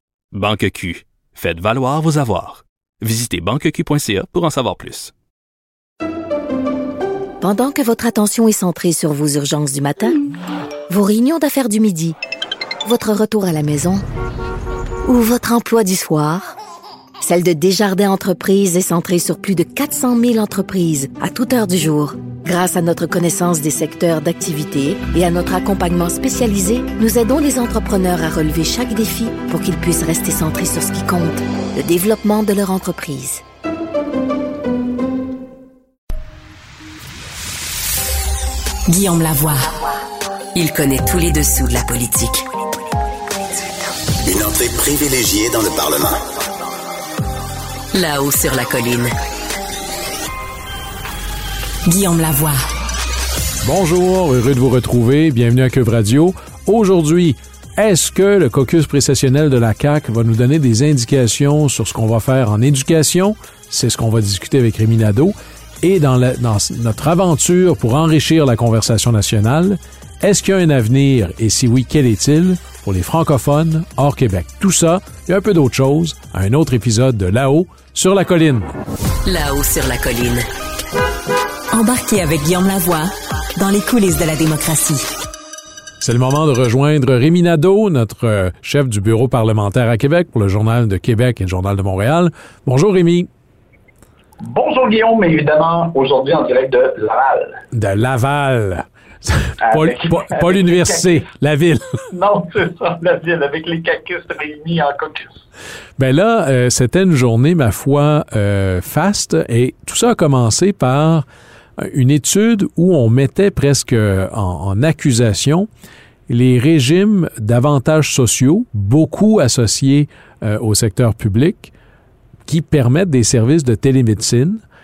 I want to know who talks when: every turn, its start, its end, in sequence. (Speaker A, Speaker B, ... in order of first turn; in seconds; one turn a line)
Speaker A: 0.3-5.1
Speaker B: 7.4-10.2
Speaker B: 10.9-12.2
Speaker B: 12.8-14.0
Speaker B: 15.1-16.6
Speaker B: 17.2-33.4
Speaker C: 38.9-39.7
Speaker C: 40.6-42.5
Speaker D: 44.2-46.2
Speaker C: 47.9-49.0
Speaker C: 51.9-52.6
Speaker E: 53.6-78.7
Speaker C: 79.2-80.5
Speaker C: 81.7-85.1
Speaker E: 86.0-93.3
Speaker F: 94.4-97.6
Speaker E: 97.7-102.0
Speaker F: 99.6-101.3
Speaker F: 102.1-105.3
Speaker E: 106.0-111.3
Speaker E: 111.8-115.7
Speaker E: 116.3-121.7
Speaker E: 122.5-124.6